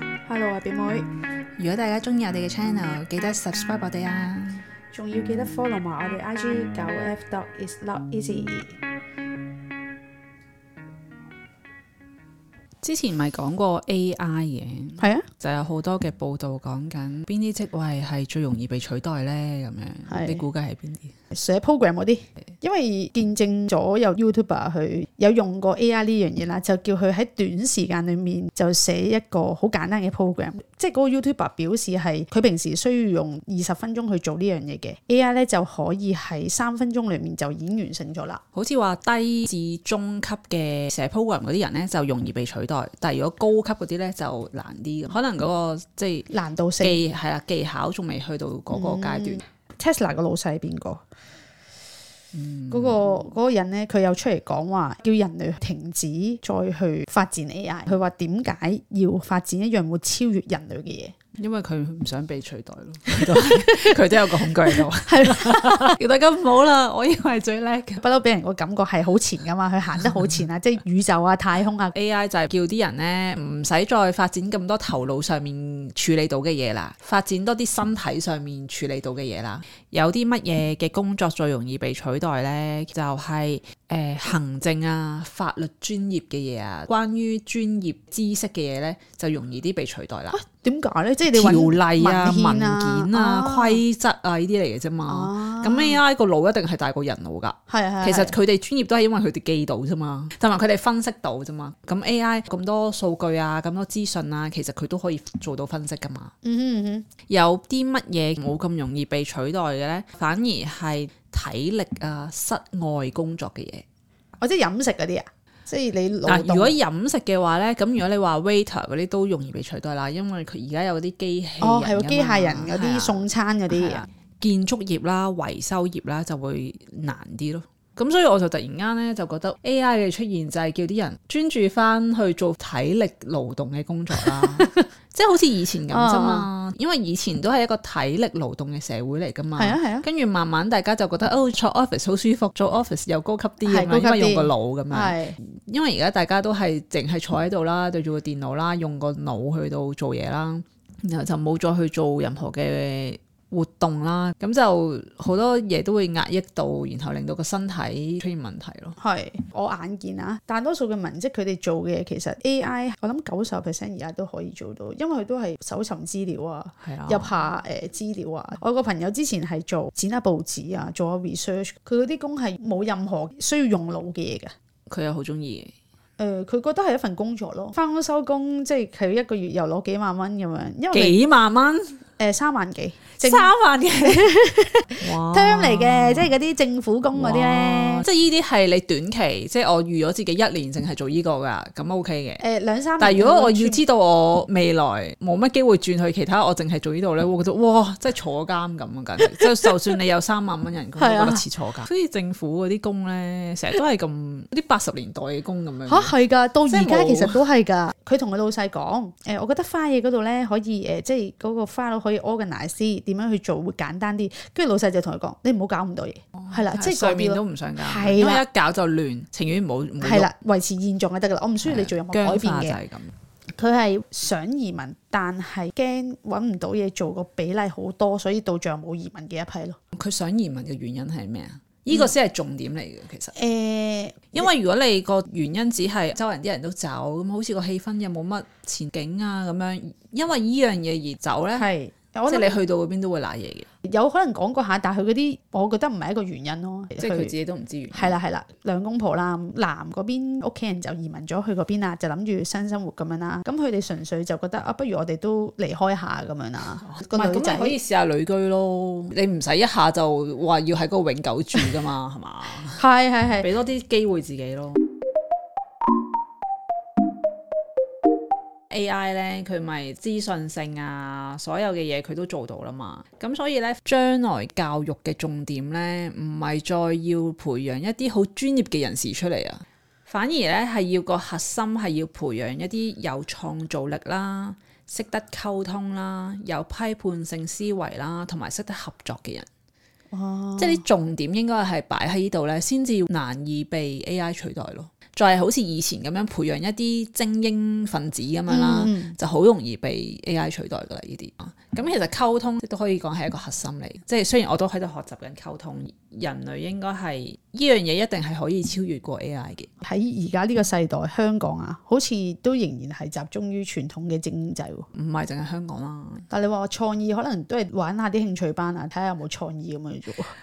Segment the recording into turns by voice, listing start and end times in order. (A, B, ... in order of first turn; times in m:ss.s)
0:00.2-0:01.1 A
0:01.6-0:04.6 B
0:04.9-0:08.8 A
0:12.8-0:21.1 B
0:20.1-0:20.4 A
0:21.3-0:38.4 A
0:38.5-0:46.3 B
0:46.3-0:47.0 A
0:46.8-0:49.4 B
0:48.7-0:51.0 A
0:52.3-0:53.3 B
0:52.7-1:01.2 A
1:01.4-1:08.0 B
1:04.7-1:05.9 A
1:08.0-1:12.0 A
1:11.9-1:30.4 B
1:30.3-1:33.8 A
1:31.3-1:46.3 B
1:35.1-1:36.0 A
1:37.7-1:38.4 A
1:46.4-1:47.1 A
1:47.3-1:53.8 B
1:54.4-1:56.8 A
1:56.3-2:39.0 B
2:01.6-2:04.0 A
2:15.9-2:16.5 A
2:19.6-2:20.0 A
2:23.7-2:25.4 A
2:39.0-2:54.5 A
2:46.8-2:47.3 B
2:54.9-2:55.7 B
2:56.2-3:01.2 A
3:00.9-3:02.0 B
3:02.2-3:03.5 A
3:03.2-3:04.3 B
3:04.0-3:08.0 A
3:05.0-3:06.3 B
3:07.1-3:12.4 B
3:12.4-3:13.8 A
3:13.0-3:26.1 B
3:19.4-3:19.7 A
3:21.0-3:21.5 A
3:25.9-3:38.4 A
3:26.7-3:27.4 B
3:36.4-3:40.3 B
3:40.0-3:42.8 A
3:41.6-3:43.1 B
3:43.6-3:49.8 A
3:50.0-3:53.3 B
3:53.3-3:54.5 A
3:54.3-4:01.7 B
4:01.6-4:02.6 A
4:02.3-4:03.7 B
4:03.8-4:07.3 A
4:07.0-4:08.2 B
4:07.9-4:17.8 A
4:16.8-4:22.8 B
4:22.7-4:23.5 A
4:23.4-4:24.8 B
4:28.7-4:49.5 B
4:50.1-4:50.8 A
4:50.6-5:09.7 B
4:58.5-4:59.2 A
5:09.8-5:14.9 A
5:14.9-5:16.2 B
5:16.3-5:20.3 A